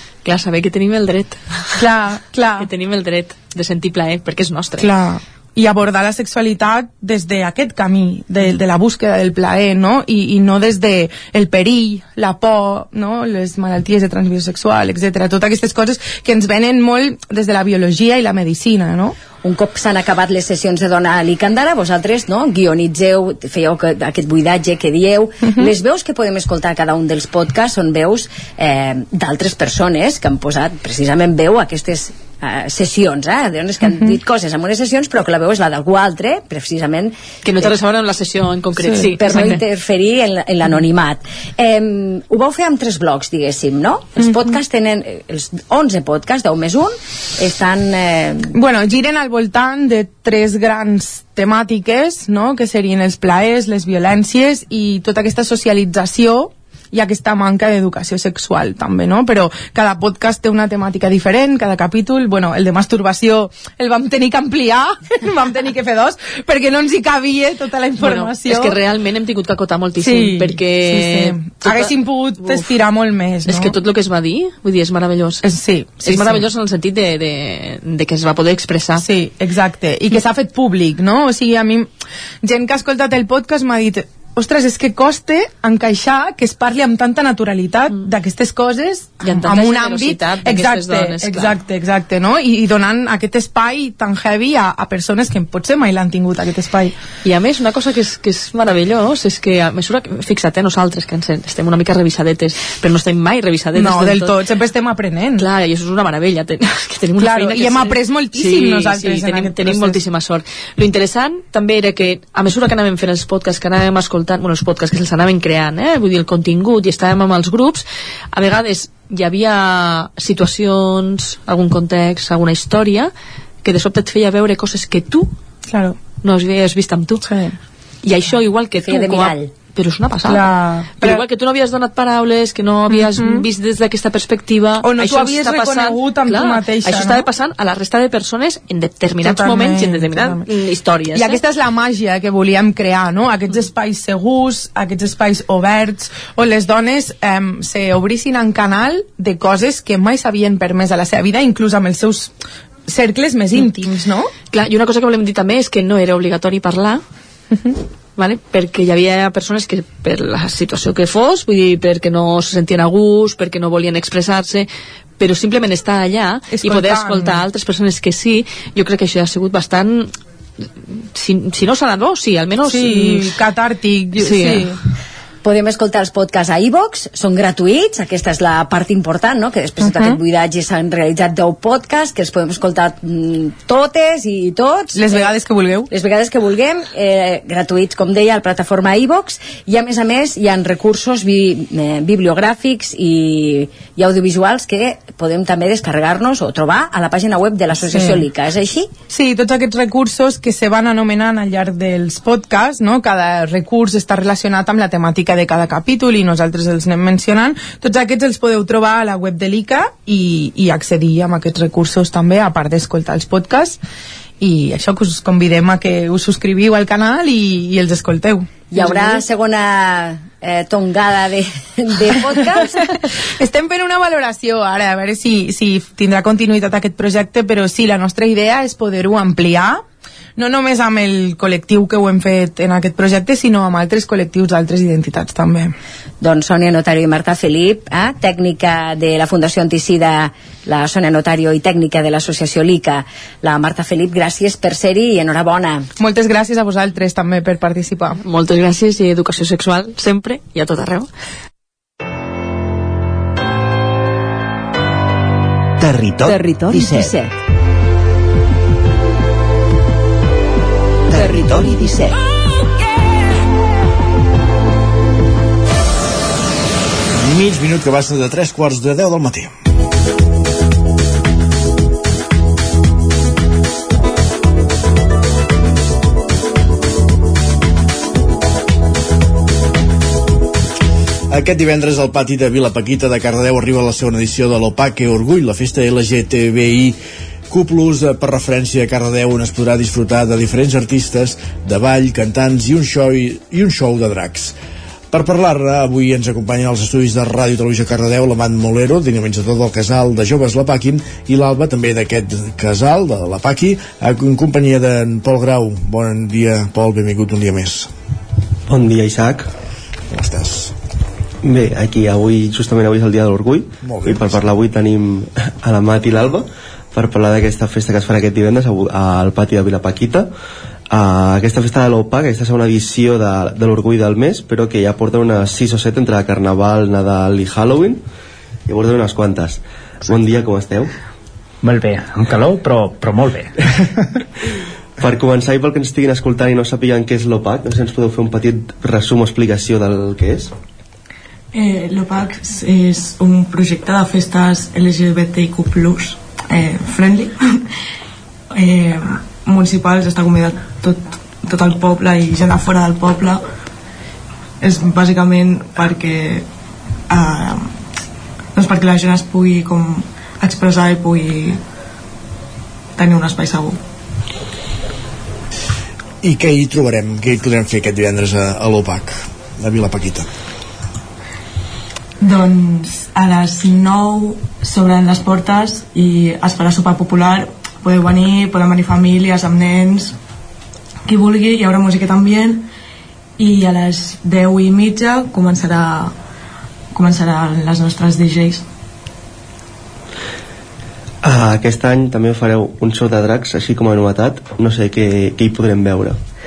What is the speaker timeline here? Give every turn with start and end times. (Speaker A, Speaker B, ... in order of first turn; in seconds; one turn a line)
Speaker A: 0.2-1.9
Speaker B: 1.8-2.7
Speaker A: 2.6-4.9
Speaker B: 4.8-19.2
Speaker C: 19.4-37.7
Speaker B: 25.4-25.7
Speaker B: 33.8-34.2
Speaker A: 37.5-39.6
Speaker B: 38.8-39.2
Speaker C: 39.1-48.5
Speaker B: 44.2-44.5
Speaker B: 48.5-68.8
Speaker A: 68.0-72.8
Speaker B: 70.0-73.8
Speaker A: 73.5-75.5
Speaker B: 75.4-76.5
Speaker A: 76.0-79.1
Speaker B: 79.0-81.9
Speaker B: 82.4-97.0
Speaker A: 89.2-91.6
Speaker A: 97.2-104.5
Speaker B: 103.7-105.5
Speaker A: 105.4-123.1
Speaker B: 107.2-110.0
Speaker A: 123.6-125.3
Speaker B: 125.7-126.0
Speaker A: 126.2-127.3
Speaker B: 127.2-127.6
Speaker A: 128.0-141.4
Speaker C: 128.8-129.5
Speaker B: 130.2-131.2
Speaker B: 132.9-133.5
Speaker B: 134.8-137.3
Speaker B: 139.2-140.5
Speaker B: 141.1-152.3
Speaker B: 152.9-154.3
Speaker A: 154.5-157.0
Speaker A: 158.2-164.7
Speaker A: 165.2-173.4
Speaker B: 166.5-167.4
Speaker B: 172.6-174.8
Speaker A: 174.2-174.7
Speaker C: 175.4-185.4
Speaker B: 179.8-180.2
Speaker B: 184.9-185.9
Speaker C: 185.9-198.9
Speaker B: 197.8-198.3
Speaker B: 199.1-213.8
Speaker B: 214.4-219.2
Speaker C: 218.7-222.9
Speaker B: 222.3-222.7
Speaker B: 223.4-229.8
Speaker B: 230.4-235.7
Speaker C: 236.2-245.9
Speaker B: 246.0-248.2
Speaker A: 248.2-251.1
Speaker D: 255.8-257.3
Speaker C: 256.2-257.3
Speaker D: 261.1-262.1
Speaker E: 267.1-269.5
Speaker E: 281.3-294.6
Speaker E: 295.1-307.9
Speaker F: 308.7-309.5
Speaker E: 310.1-310.8
Speaker F: 311.4-320.3
Speaker E: 313.8-314.4
Speaker F: 320.9-328.0
Speaker F: 328.7-330.9
Speaker G: 331.6-334.0
Speaker F: 335.0-340.5
Speaker H: 341.5-347.4
Speaker H: 348.5-353.4
Speaker H: 354.6-356.5
Speaker H: 357.1-357.7
Speaker H: 358.6-361.6
Speaker H: 363.0-363.8
Speaker E: 366.2-370.3
Speaker H: 372.2-380.1
Speaker H: 381.1-382.7
Speaker H: 383.4-386.2
Speaker H: 386.9-388.6
Speaker F: 391.2-396.2